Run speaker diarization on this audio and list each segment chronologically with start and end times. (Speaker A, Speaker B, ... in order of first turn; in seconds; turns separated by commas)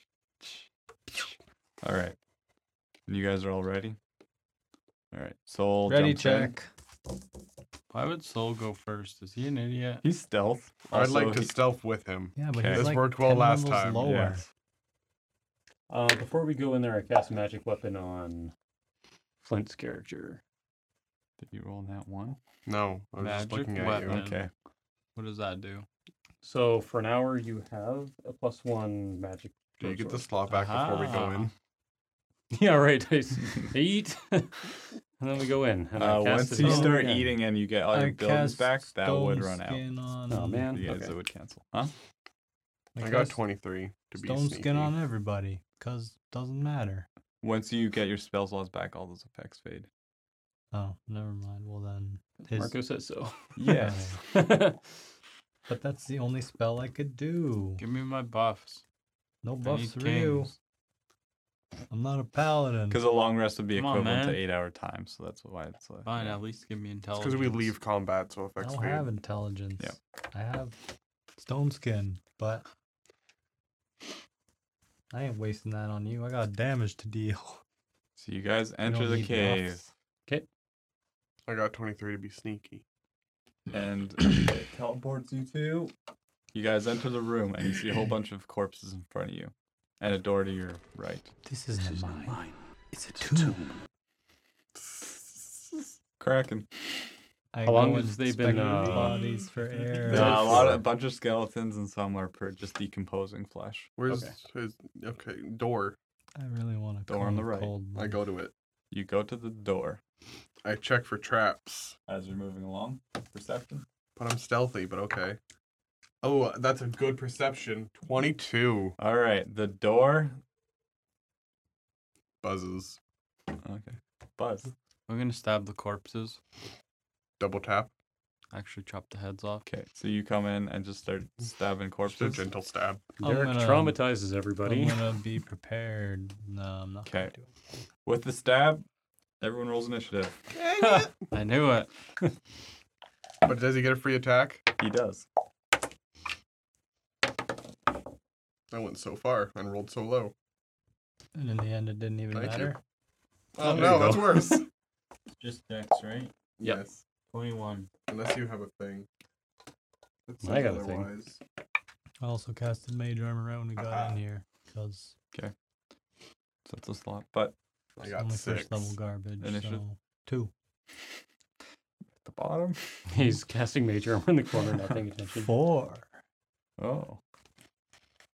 Speaker A: 1.8-2.2, Speaker A: 3.1-4.0, Speaker A: 5.1-6.5, Speaker B: 5.9-6.7, Speaker C: 7.9-10.0, Speaker A: 10.0-11.6, Speaker D: 10.9-14.1, Speaker B: 12.4-14.4, Speaker A: 12.6-12.9, Speaker A: 14.0-14.4, Speaker E: 15.9-18.5, Speaker E: 19.4-20.4, Speaker A: 21.4-22.4, Speaker D: 22.7-24.2, Speaker C: 23.2-24.4, Speaker A: 24.0-24.5, Speaker C: 25.1-25.9, Speaker E: 26.4-30.3, Speaker D: 29.8-31.5, Speaker C: 30.5-31.5, Speaker E: 32.5-37.3, Speaker A: 36.0-39.9, Speaker B: 36.6-37.1, Speaker B: 37.9-40.8, Speaker E: 40.3-40.9, Speaker A: 40.7-41.9, Speaker D: 40.9-41.1, Speaker B: 43.0-43.4, Speaker D: 43.0-45.0, Speaker B: 44.2-47.1, Speaker A: 47.4-49.9, Speaker B: 50.7-52.8, Speaker E: 52.4-54.8, Speaker A: 53.6-54.1, Speaker B: 53.7-54.2, Speaker B: 55.7-57.8, Speaker C: 57.8-58.8, Speaker B: 59.4-60.5, Speaker C: 59.6-60.5, Speaker B: 61.9-63.0, Speaker A: 62.9-66.4, Speaker C: 63.7-64.4, Speaker C: 66.0-67.7, Speaker D: 67.2-69.1, Speaker B: 68.6-70.8, Speaker B: 71.4-72.7, Speaker B: 75.1-77.6, Speaker A: 78.2-79.8, Speaker B: 78.8-79.9, Speaker D: 81.5-82.8, Speaker A: 83.7-85.9, Speaker A: 86.5-91.3, Speaker B: 91.5-93.7, Speaker A: 96.2-97.1, Speaker B: 97.5-100.8, Speaker E: 97.6-99.3, Speaker E: 100.0-100.8, Speaker A: 100.1-103.9, Speaker D: 104.0-106.0, Speaker E: 104.1-104.3, Speaker B: 106.4-108.2, Speaker A: 107.1-107.7, Speaker D: 108.0-108.5, Speaker A: 108.9-110.0, Speaker D: 110.6-112.0, Speaker A: 112.1-113.8, Speaker D: 114.2-115.4, Speaker D: 116.2-119.0, Speaker A: 119.0-120.4, Speaker D: 122.4-123.0, Speaker A: 123.6-124.7, Speaker C: 125.1-126.4, Speaker D: 127.4-127.9, Speaker C: 128.5-129.7, Speaker A: 129.7-132.4, Speaker D: 132.1-133.1, Speaker E: 133.2-135.1, Speaker B: 133.2-134.0, Speaker B: 134.6-137.5, Speaker A: 137.1-137.3, Speaker A: 138.1-138.8, Speaker A: 139.4-140.3, Speaker D: 140.6-141.1, Speaker C: 141.3-141.9, Speaker D: 143.4-144.6, Speaker A: 144.8-145.3, Speaker D: 148.7-150.3, Speaker B: 151.3-152.8, Speaker D: 152.3-152.7, Speaker D: 153.6-154.7, Speaker E: 153.6-154.6, Speaker C: 155.3-156.3, Speaker D: 156.6-157.0, Speaker C: 157.3-157.9, Speaker D: 158.1-159.1, Speaker D: 160.3-161.4, Speaker E: 160.4-161.1, Speaker B: 162.2-165.1, Speaker D: 163.8-164.2, Speaker A: 166.7-167.6, Speaker D: 168.0-168.9, Speaker B: 168.0-170.5, Speaker A: 169.4-169.8, Speaker A: 172.2-173.0, Speaker E: 173.1-175.5, Speaker B: 175.4-176.1, Speaker A: 176.8-177.2